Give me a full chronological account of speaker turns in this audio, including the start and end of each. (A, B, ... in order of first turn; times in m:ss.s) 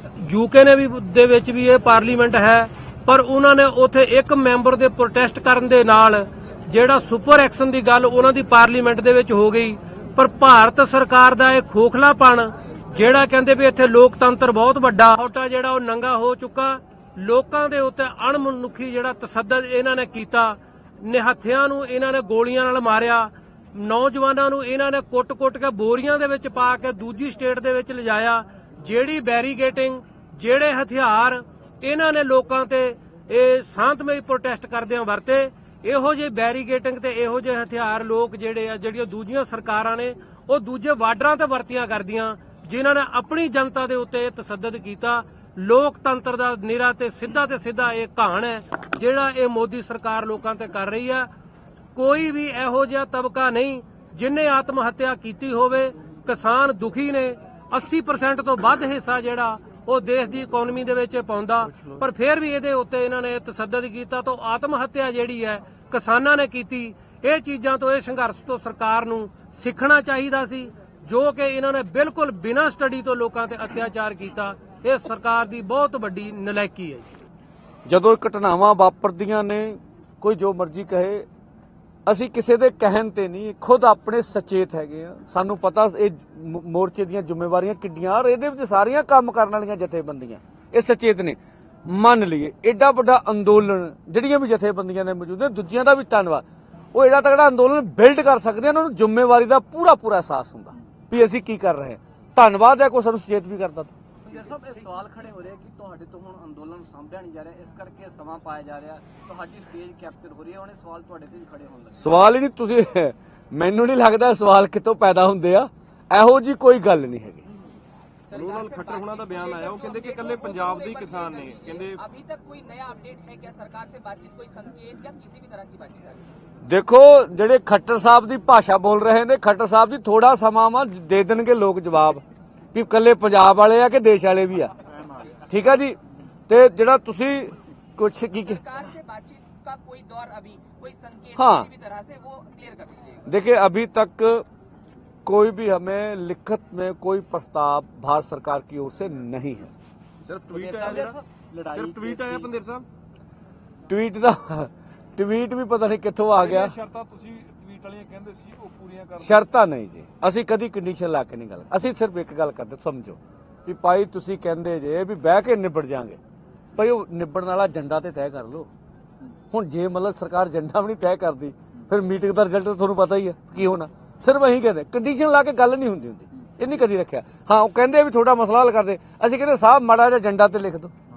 0:00.2-0:51.3 A
0:52.0-1:17.1 A
1:17.9-1:21.2 B
1:22.1-1:43.9 B
1:44.3-1:52.1 C
1:52.0-1:57.4 B
1:58.3-2:02.0 D
1:58.3-2:06.2 E
2:06.7-2:12.2 B
2:12.7-2:14.7 B
2:15.5-2:16.0 B
2:16.5-2:18.6 B
2:18.5-2:23.3 E
2:21.4-2:21.7 B
2:23.3-2:24.4 B
2:25.2-2:29.7 B
2:30.3-2:31.2 D
2:30.5-2:32.5 C
2:31.7-2:32.9 D
2:33.9-2:36.8 B
2:36.4-2:39.4 D
2:39.2-2:46.2 B
2:46.8-2:48.7 B
2:49.5-3:00.9 B